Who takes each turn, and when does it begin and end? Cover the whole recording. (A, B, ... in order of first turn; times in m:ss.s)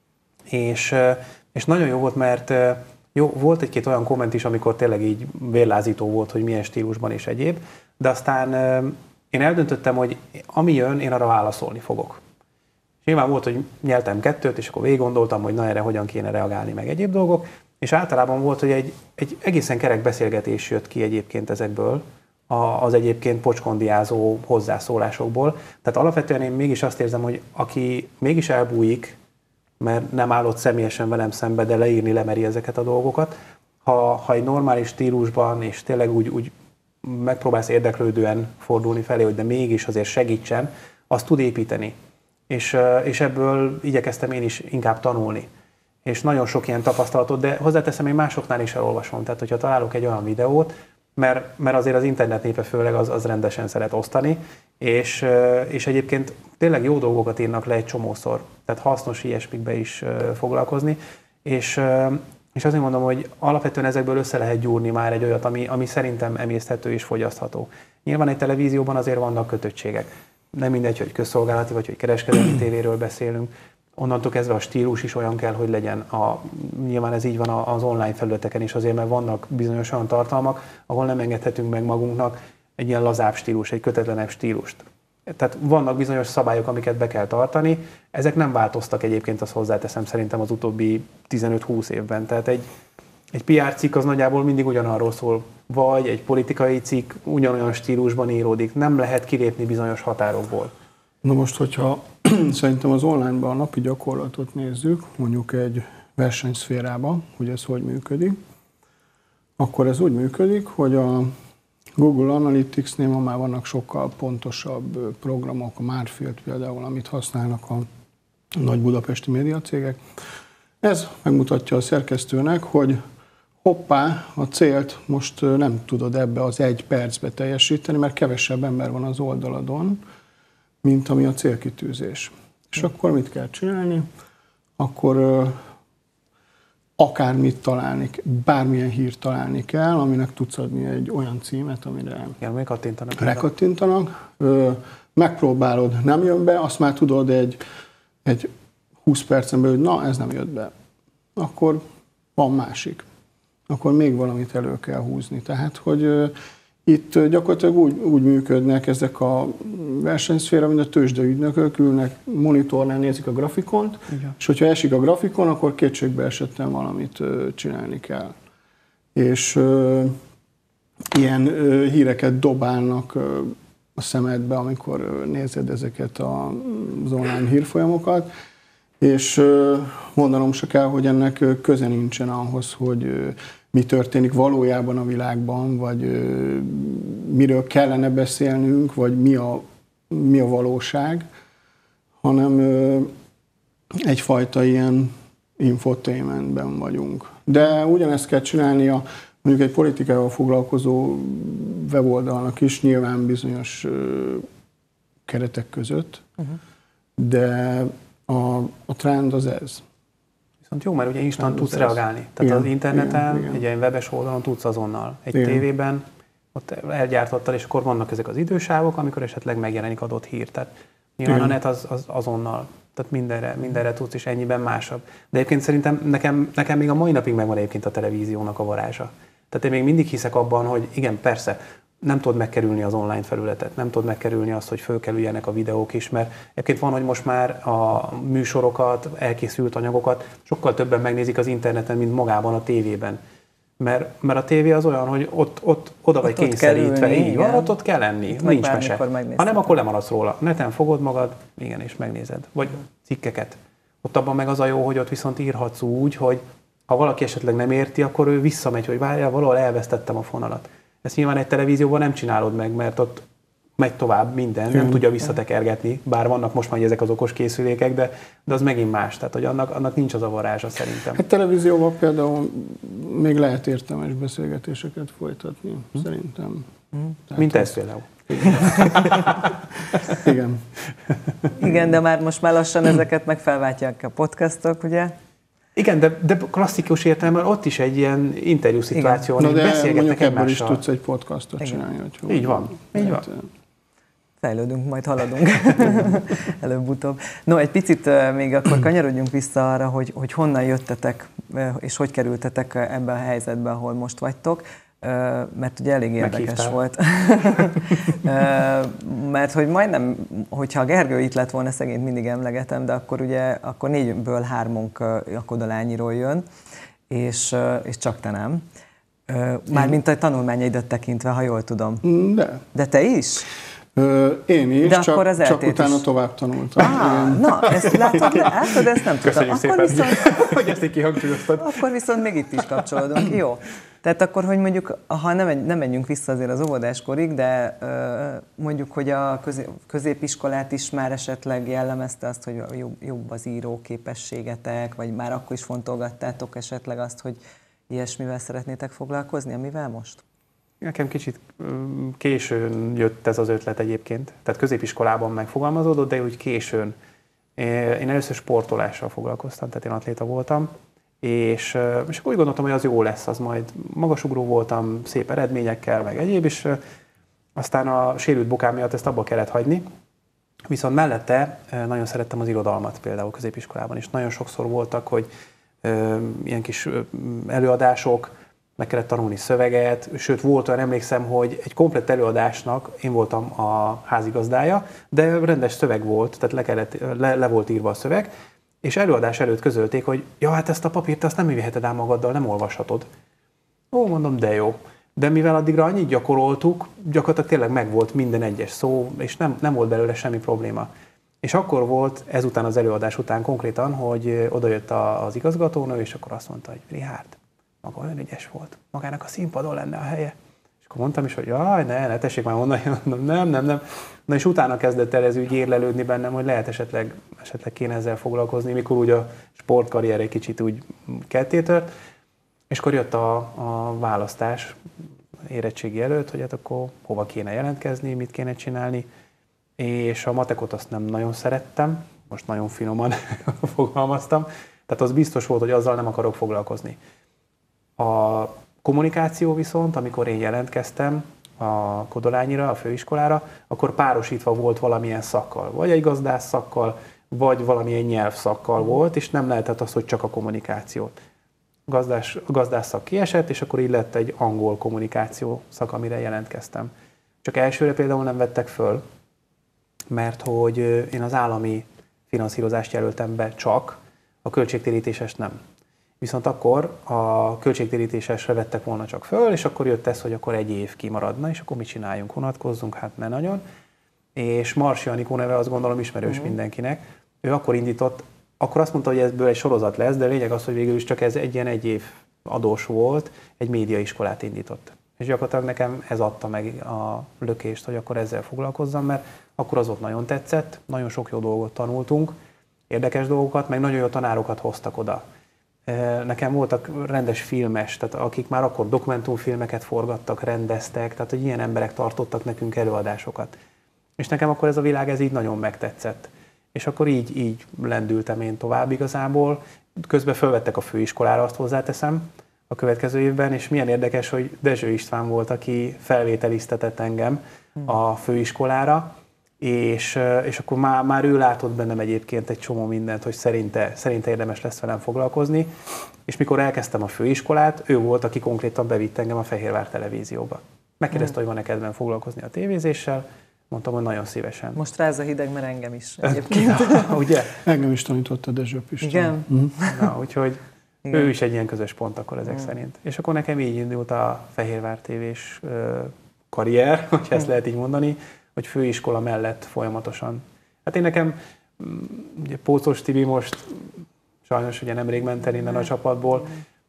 0:00.5-0:12.2 A
0:13.0-0:29.2 A
0:29.8-0:36.5 A
0:37.0-0:41.9 A
0:42.5-0:45.5 A
0:46.0-1:32.6 A
1:33.3-1:40.7 A
1:41.2-1:48.4 B
1:49.6-1:51.3 B
1:52.0-1:57.9 B
1:58.5-2:00.0 B
2:00.8-2:03.0 B
2:03.6-2:10.0 B
2:10.8-2:14.1 B
2:14.8-2:15.6 B
2:17.0-2:22.4 B
2:22.4-2:23.5 A
2:23.2-2:27.6 B
2:28.2-2:28.5 B
2:29.0-2:30.7 B
2:31.4-2:31.8 B
2:32.4-2:33.0 B
2:33.7-2:36.3 B
2:36.8-2:48.3 B
2:49.1-2:50.2 B
2:51.1-2:58.3 B
2:59.0-3:11.2 B
3:12.2-3:13.1 B
3:14.0-3:24.5 B
3:25.2-3:26.3 B
3:27.2-3:29.8 B
3:30.7-4:03.2 A
3:31.4-3:33.6 B
3:35.3-3:35.6 B
3:41.2-3:41.6 B
4:03.8-4:23.2 A
4:06.2-4:07.7 C
4:08.3-4:09.7 C
4:23.8-4:31.2 A
4:24.7-4:25.0 B
4:31.1-4:36.7 B
4:37.3-4:37.7 B
4:37.3-4:39.5 A
4:38.3-4:39.4 B
4:40.0-4:40.7 B
4:41.6-4:45.1 C
4:45.8-4:50.8 A
4:48.9-4:49.2 C
4:49.4-4:53.5 B
4:52.3-4:53.3 A
4:54.4-5:16.4 C
5:06.2-5:06.8 A
5:17.1-5:18.6 C
5:19.3-5:22.0 C
5:22.0-5:22.6 B
5:22.7-5:23.5 C
5:23.9-5:28.3 B
5:24.8-5:26.0 C
5:26.8-5:30.5 C
5:29.2-5:31.8 A
5:31.6-5:50.2 C
5:50.8-5:56.9 A
5:57.6-6:00.7 A
6:01.2-6:06.8 A
6:07.6-6:09.8 A
6:10.7-6:15.3 A
6:15.8-6:28.3 A
6:28.8-6:33.1 A
6:33.9-6:40.9 A
6:41.4-6:50.3 A
6:50.8-7:01.9 A
7:02.7-7:04.8 A
7:05.5-7:09.1 A
7:09.8-7:17.0 A
7:18.0-7:31.1 A
7:31.9-7:36.9 A
7:37.4-7:39.0 A
7:40.1-7:45.6 A
7:46.2-7:53.6 A
7:54.3-8:12.4 A
8:12.9-8:15.2 A
8:15.9-8:23.5 A
8:24.2-8:45.7 A
8:46.3-8:54.8 A
8:54.7-8:57.1 C
8:56.3-8:57.6 A
8:57.6-8:59.7 B
8:59.0-9:00.1 C
8:59.8-9:16.5 A